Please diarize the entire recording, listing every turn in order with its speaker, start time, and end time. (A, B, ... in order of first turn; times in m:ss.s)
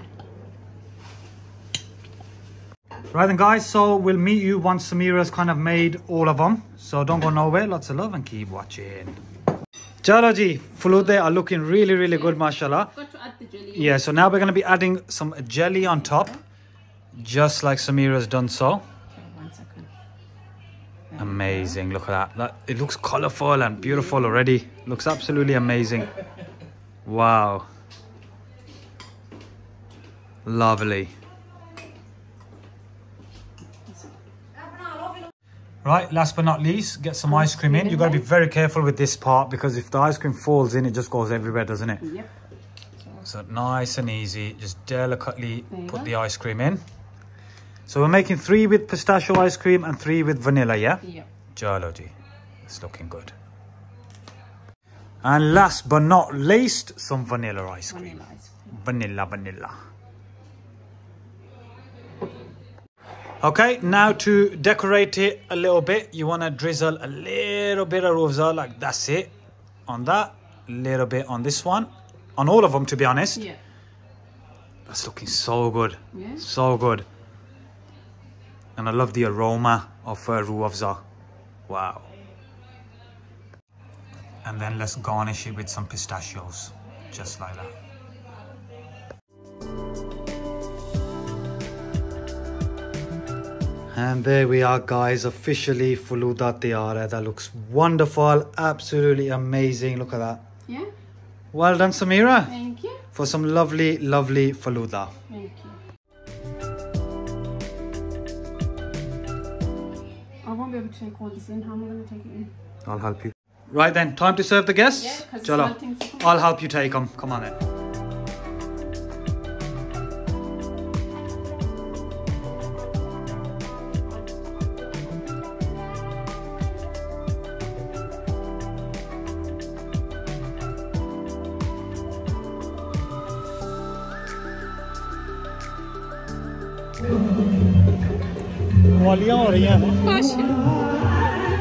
0:03.1-0:09.2 A
0:10.0-0:12.9 A
0:12.1-0:14.3 B
0:13.8-0:16.4 A
0:15.8-0:16.4 B
0:17.1-0:18.8 A
0:19.1-0:19.9 B
0:21.1-0:21.8 B
0:21.2-0:26.1 A
0:27.0-0:27.7 A
0:30.4-0:31.1 A
0:33.9-0:34.1 B
0:35.8-0:42.1 A
0:37.3-0:38.2 B
0:42.0-0:42.3 B
0:43.2-0:46.8 A
0:45.7-0:46.1 B
0:47.9-0:51.0 A
0:51.6-0:52.1 A
0:52.6-0:53.4 A
0:55.2-0:59.8 A
0:57.9-0:58.5 B
1:03.4-1:09.3 A
1:09.9-1:13.4 A
1:13.3-1:13.6 B
1:14.9-1:17.0 A
1:16.1-1:16.4 B
1:18.8-1:21.0 A
1:21.7-1:22.1 A
1:24.4-1:27.7 A
1:33.9-1:40.4 A
1:41.5-1:42.5 A
1:42.4-1:43.0 B
1:43.1-1:45.1 A
1:45.3-1:45.8 B
1:50.4-1:52.5 B
1:52.8-1:57.6 A
1:54.9-1:56.5 B
2:18.9-2:20.1 A
2:20.0-2:20.8 B